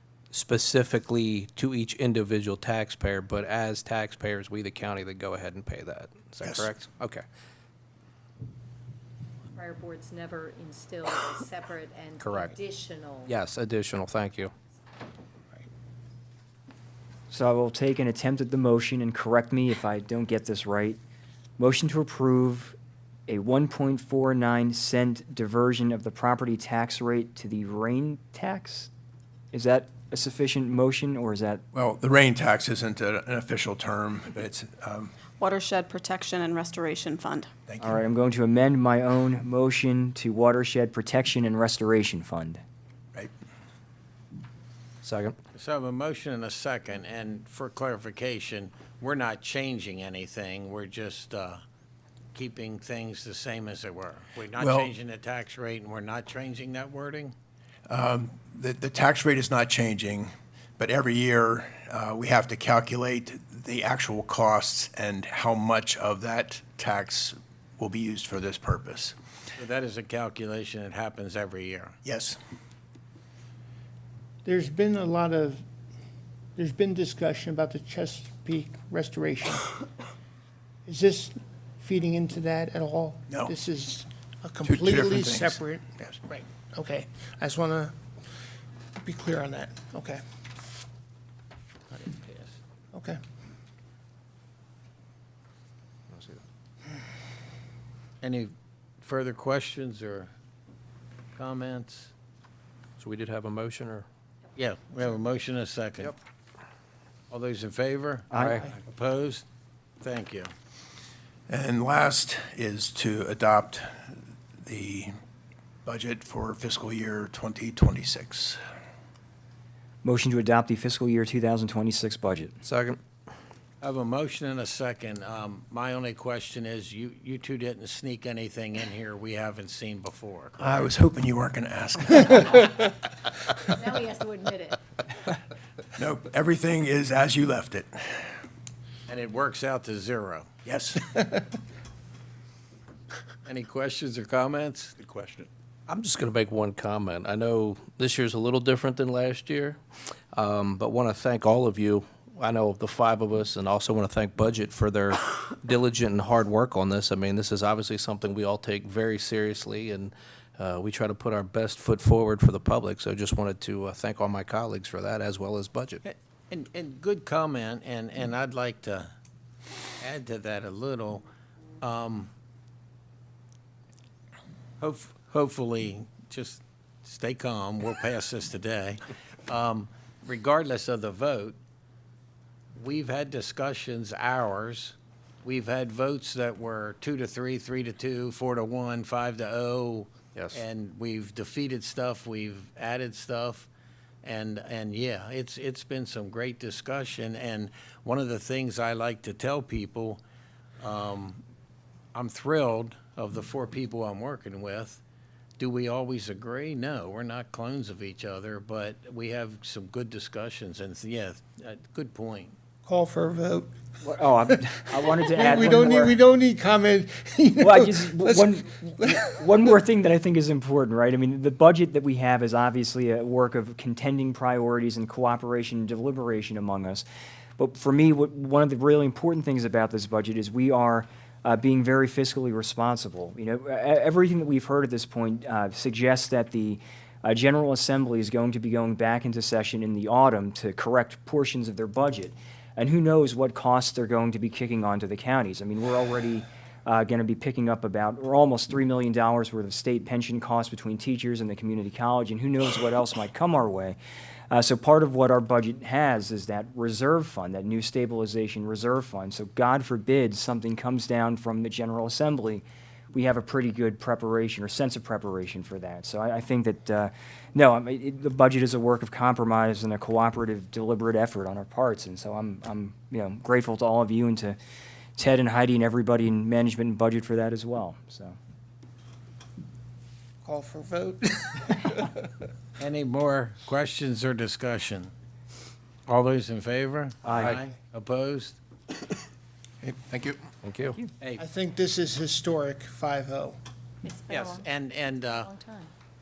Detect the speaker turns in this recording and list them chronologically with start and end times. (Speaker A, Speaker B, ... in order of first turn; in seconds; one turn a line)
Speaker A: 0.3-7.2
Speaker B: 6.4-6.7
Speaker C: 9.5-13.3
Speaker A: 12.2-12.5
Speaker A: 13.2-14.5
Speaker D: 17.3-21.0
Speaker D: 21.6-22.7
Speaker D: 23.3-28.9
Speaker D: 29.5-31.6
Speaker B: 31.7-35.1
Speaker E: 35.4-37.5
Speaker B: 37.7-38.0
Speaker D: 37.8-42.6
Speaker A: 45.0-45.4
Speaker F: 45.5-51.6
Speaker F: 52.3-57.3
Speaker B: 54.5-54.9
Speaker B: 57.9-69.1
Speaker F: 69.6-72.0
Speaker B: 72.0-72.4
Speaker G: 74.4-75.6
Speaker G: 76.6-79.8
Speaker G: 80.8-88.0
Speaker B: 84.7-86.2
Speaker G: 89.0-90.2
Speaker F: 91.9-92.5
Speaker G: 92.9-93.2
Speaker A: 96.1-96.4
Speaker F: 98.2-100.3
Speaker F: 101.3-102.1
Speaker A: 103.0-104.0
Speaker F: 104.5-106.1
Speaker F: 107.3-109.5
Speaker D: 108.3-108.7
Speaker A: 108.3-108.6
Speaker F: 110.0-110.5
Speaker B: 111.5-114.1
Speaker B: 114.6-115.1
Speaker B: 115.8-118.6
Speaker D: 120.0-122.5
Speaker A: 122.6-123.0
Speaker F: 123.8-130.9
Speaker B: 130.6-132.9
Speaker C: 133.8-134.8
Speaker B: 136.0-138.4
Speaker F: 139.1-140.5
Speaker B: 140.6-141.1
Speaker F: 143.4-145.5
Speaker A: 145.9-149.8
Speaker A: 150.3-166.0
Speaker F: 166.0-169.1
Speaker F: 170.0-171.2
Speaker F: 171.8-172.3
Speaker F: 174.8-181.6
Speaker F: 182.8-193.7
Speaker F: 194.2-200.2
Speaker F: 200.8-201.4
Speaker F: 202.1-205.0
Speaker F: 205.6-212.6
Speaker G: 212.8-213.7
Speaker D: 214.0-216.2
Speaker G: 214.8-219.7
Speaker D: 217.6-227.0
Speaker D: 227.6-254.0
Speaker D: 254.5-274.6
Speaker D: 275.2-278.4
Speaker G: 280.4-282.3
Speaker F: 282.8-285.1
Speaker F: 286.1-288.6
Speaker D: 287.2-287.6
Speaker B: 289.8-290.4
Speaker A: 290.6-291.0
Speaker G: 291.4-293.6
Speaker C: 294.0-294.7
Speaker F: 294.3-295.5
Speaker C: 295.4-295.9